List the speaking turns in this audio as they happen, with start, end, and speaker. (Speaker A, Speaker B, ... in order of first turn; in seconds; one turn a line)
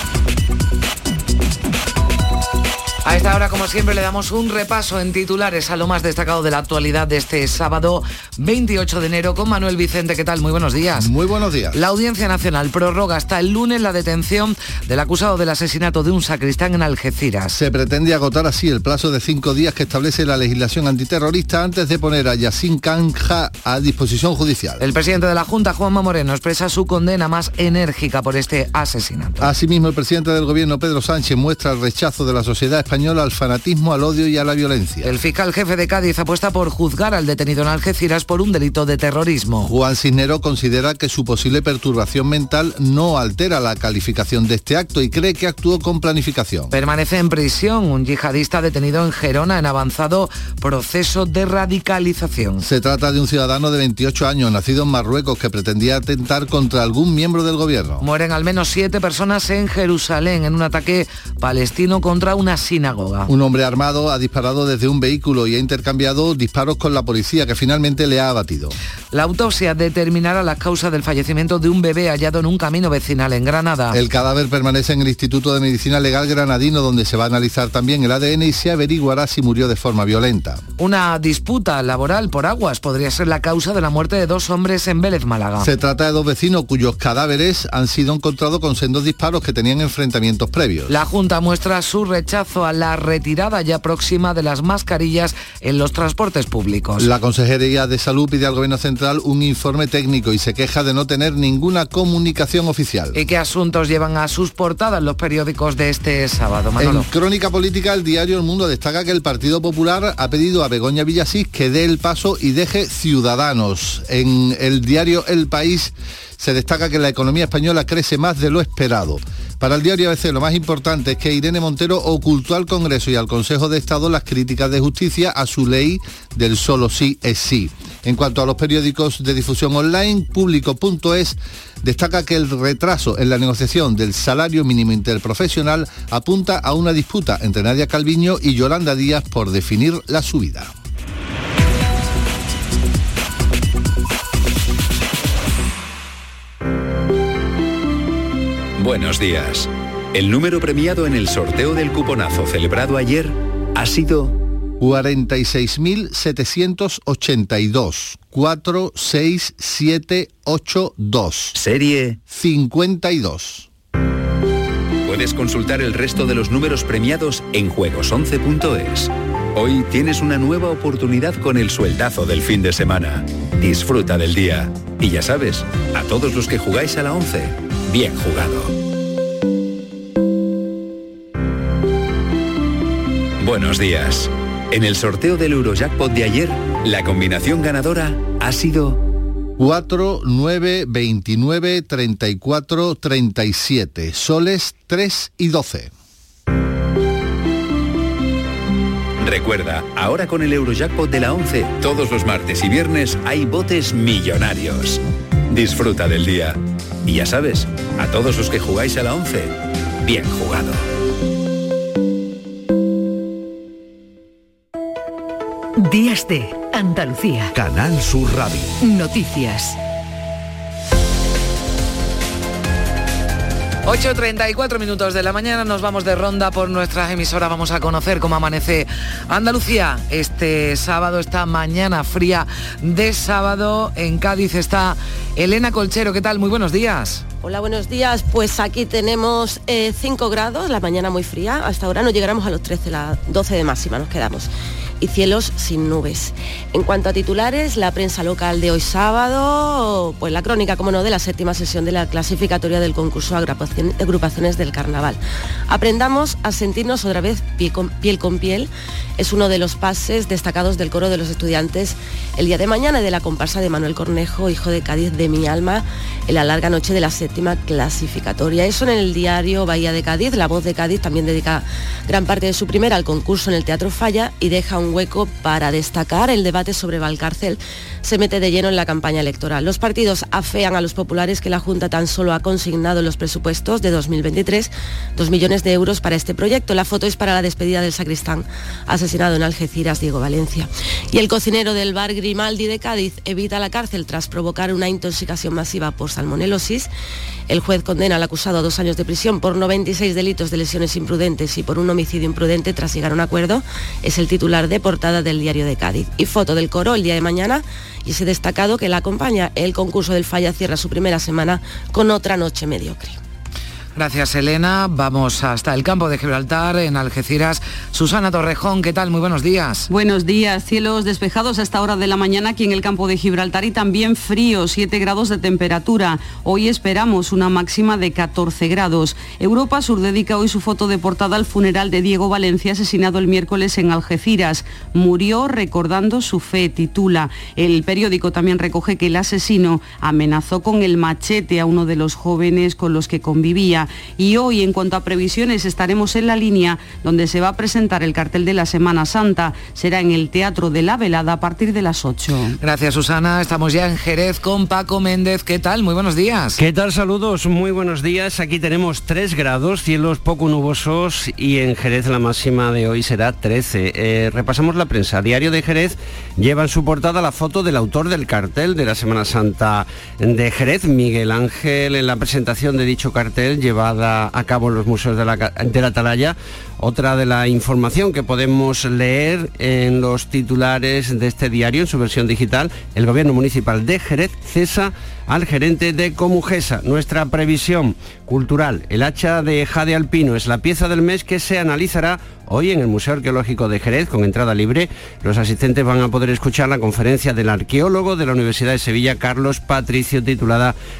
Speaker A: 3.0-11.1
Speaker B: 11.0-11.8
Speaker A: 11.7-17.6
Speaker B: 17.5-24.8
Speaker A: 24.8-29.5
Speaker B: 29.4-35.1
Speaker A: 35.0-39.7
Speaker B: 39.6-46.7
Speaker A: 46.7-52.6
Speaker B: 52.6-58.0
Speaker A: 58.0-63.3
Speaker B: 63.3-68.7
Speaker A: 69.1-74.0
Speaker B: 73.9-80.6
Speaker A: 80.8-85.7
Speaker B: 85.6-90.9
Speaker A: 90.9-97.1
Speaker B: 97.0-103.2
Speaker A: 103.1-107.1
Speaker B: 106.8-140.7
Speaker C: 148.8-154.4
Speaker B: 154.8-161.6
Speaker C: 161.5-162.2
Speaker B: 162.3-163.7
Speaker C: 165.0-178.7
Speaker C: 183.4-189.0
Speaker B: 189.6-195.9
Speaker C: 199.2-210.8
Speaker D: 215.8-217.5
Speaker C: 217.5-218.7
Speaker D: 218.8-219.8
Speaker A: 223.8-237.2
Speaker E: 237.4-296.9
Speaker E: 297.5-313.2
Speaker A: 313.9-319.9
Speaker F: 319.9-352.6
Speaker A: 352.6-356.6
Speaker G: 356.6-363.8
Speaker G: 364.4-365.9
Speaker G: 366.4-369.6
Speaker G: 370.3-371.2
Speaker G: 371.9-376.3
Speaker G: 376.9-380.7
Speaker G: 381.3-384.7
Speaker G: 386.0-387.2
Speaker G: 388.4-389.0
Speaker G: 389.9-390.4
Speaker G: 393.0-393.3
Speaker G: 396.5-397.6
Speaker G: 399.5-400.0